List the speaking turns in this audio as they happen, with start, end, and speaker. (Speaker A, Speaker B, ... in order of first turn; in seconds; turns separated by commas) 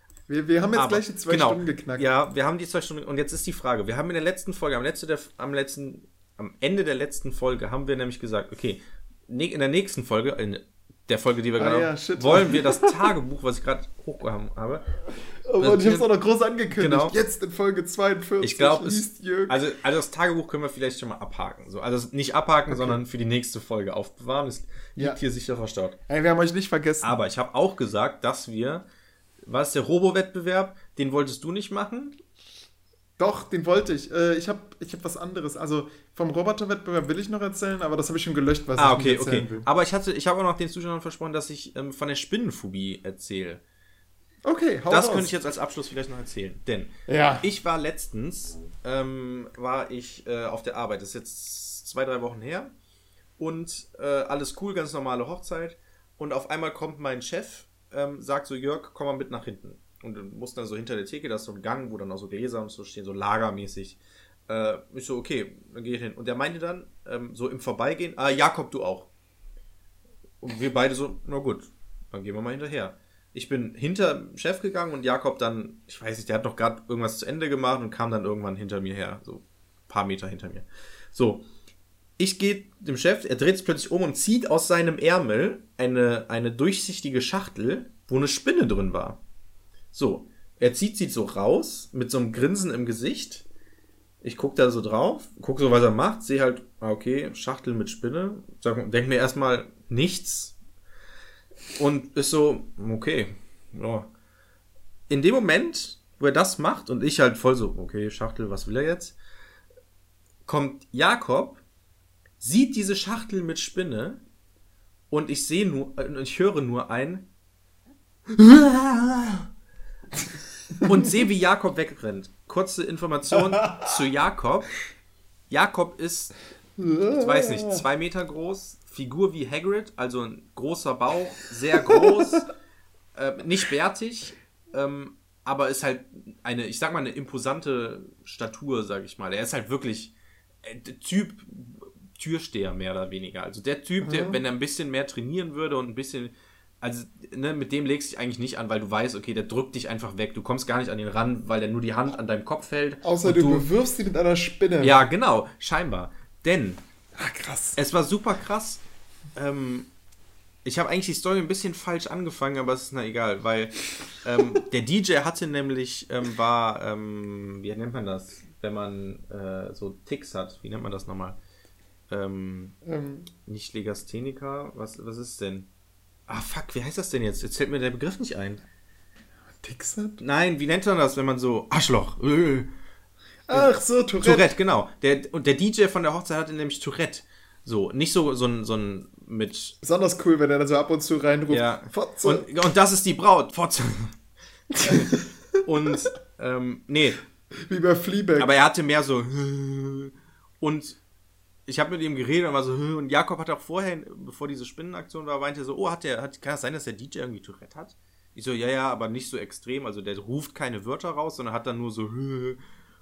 Speaker A: 0.3-2.1, Speaker B: 0.7-14.9, Speaker A: 11.6-13.1, Speaker A: 15.5-19.6, Speaker B: 15.6-16.1, Speaker B: 16.7-17.1, Speaker B: 18.4-26.0, Speaker A: 22.7-23.0, Speaker A: 26.1-27.1, Speaker B: 27.0-28.9, Speaker B: 29.4-32.2, Speaker A: 33.2-39.7, Speaker B: 38.8-43.6, Speaker A: 44.4-45.3, Speaker B: 44.9-52.7, Speaker A: 47.1-47.5, Speaker B: 53.4-69.1, Speaker B: 70.4-81.5, Speaker B: 82.2-89.2, Speaker B: 89.9-93.5, Speaker B: 94.2-100.5, Speaker B: 101.8-104.1, Speaker B: 105.1-109.2, Speaker B: 110.5-111.6, Speaker B: 112.4-114.2, Speaker B: 115.1-117.3, Speaker B: 118.3-119.5, Speaker A: 120.8-121.2, Speaker B: 120.8-124.7, Speaker A: 123.3-124.0, Speaker B: 125.5-126.3, Speaker A: 126.8-127.8, Speaker B: 127.1-132.5, Speaker B: 133.2-153.7, Speaker A: 144.0-144.4, Speaker A: 153.0-155.0, Speaker B: 154.8-156.8, Speaker A: 157.2-157.8, Speaker B: 157.8-158.8, Speaker B: 159.3-159.9, Speaker B: 160.7-171.4, Speaker B: 172.1-172.8, Speaker A: 172.8-173.3, Speaker B: 173.5-175.7, Speaker B: 176.3-178.6, Speaker A: 179.6-180.2, Speaker B: 180.2-182.7, Speaker A: 183.5-184.5, Speaker B: 183.5-189.8, Speaker A: 189.8-192.5, Speaker B: 191.5-194.2, Speaker A: 194.8-195.3, Speaker B: 194.8-197.2, Speaker A: 197.6-198.5, Speaker B: 198.4-201.0, Speaker B: 201.7-212.6